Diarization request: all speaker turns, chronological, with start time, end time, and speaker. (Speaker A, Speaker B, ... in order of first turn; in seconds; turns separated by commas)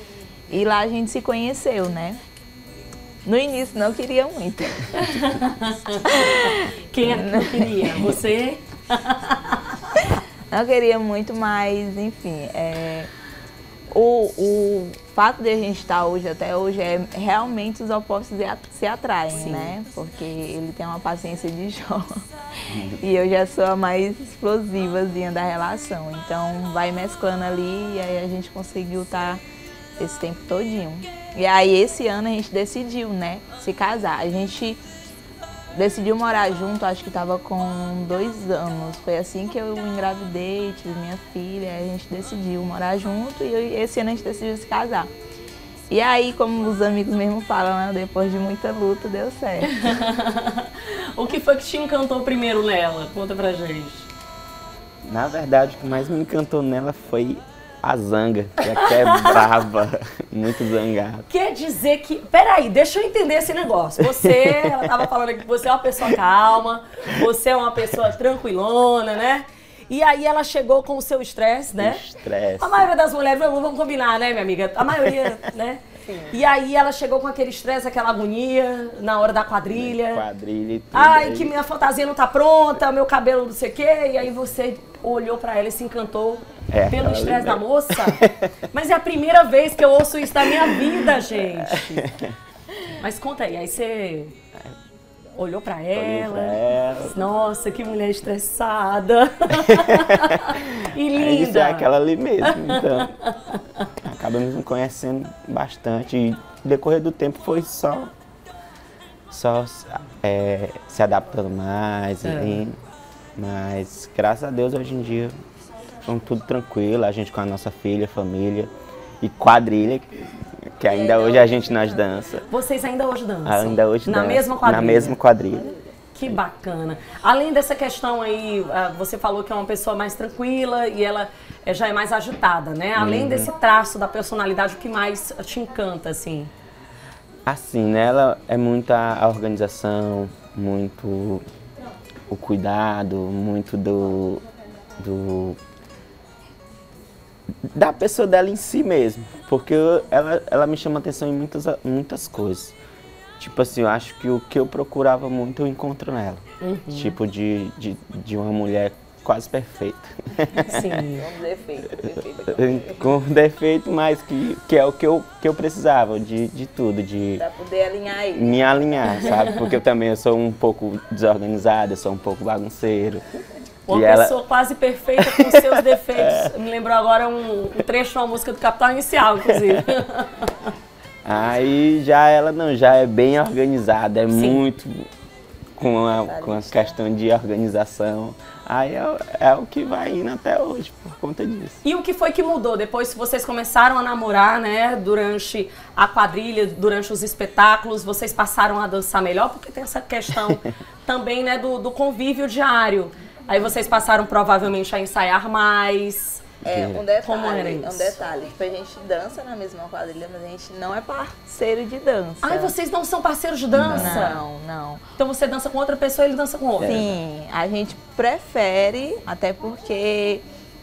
Speaker A: 0.5-2.2, Speaker A: 3.2-5.1, Speaker B: 4.9-10.0, Speaker A: 6.1-6.4, Speaker A: 7.0-8.1, Speaker A: 10.5-13.1, Speaker A: 13.9-22.2, Speaker B: 19.3-19.7, Speaker C: 22.7-23.0, Speaker A: 22.9-29.4, Speaker A: 30.0-34.8, Speaker A: 35.7-45.1, Speaker A: 45.9-49.7, Speaker B: 49.6-54.1, Speaker C: 55.0-61.3, Speaker B: 58.7-59.4, Speaker B: 61.3-72.0, Speaker C: 64.1-65.0, Speaker C: 71.8-72.8, Speaker B: 72.6-80.2, Speaker A: 76.0-76.4, Speaker C: 79.7-81.6, Speaker B: 80.9-92.1, Speaker C: 86.7-88.5, Speaker C: 90.4-92.3, Speaker B: 93.0-94.3, Speaker B: 95.3-101.9, Speaker C: 95.9-97.2, Speaker C: 99.7-100.3, Speaker C: 101.1-103.1, Speaker B: 102.4-103.9, Speaker C: 104.0-108.1, Speaker C: 109.3-112.8, Speaker B: 112.2-112.6, Speaker C: 113.4-115.3, Speaker C: 116.0-122.5, Speaker A: 120.8-122.0, Speaker B: 122.5-125.2, Speaker C: 123.4-125.7, Speaker A: 125.5-125.9, Speaker B: 126.1-136.5, Speaker C: 132.9-133.5, Speaker C: 137.5-141.4, Speaker C: 142.3-144.4, Speaker C: 145.0-145.6, Speaker C: 147.7-152.8, Speaker C: 153.4-161.0, Speaker B: 156.6-157.2, Speaker B: 160.6-161.3, Speaker A: 161.2-163.1, Speaker C: 162.5-167.4, Speaker A: 167.4-169.4, Speaker C: 168.3-173.2, Speaker B: 169.3-169.6, Speaker B: 173.9-180.7, Speaker C: 173.9-174.3, Speaker C: 175.2-176.5, Speaker C: 181.2-185.1, Speaker B: 184.3-184.6, Speaker C: 185.8-191.8, Speaker A: 186.2-187.0, Speaker B: 191.8-206.4, Speaker A: 206.6-212.7, Speaker C: 206.7-207.0, Speaker B: 207.2-208.2, Speaker B: 212.4-214.4, Speaker C: 213.7-214.3, Speaker A: 213.9-215.0, Speaker B: 215.2-217.0, Speaker C: 216.8-217.2, Speaker A: 216.8-220.4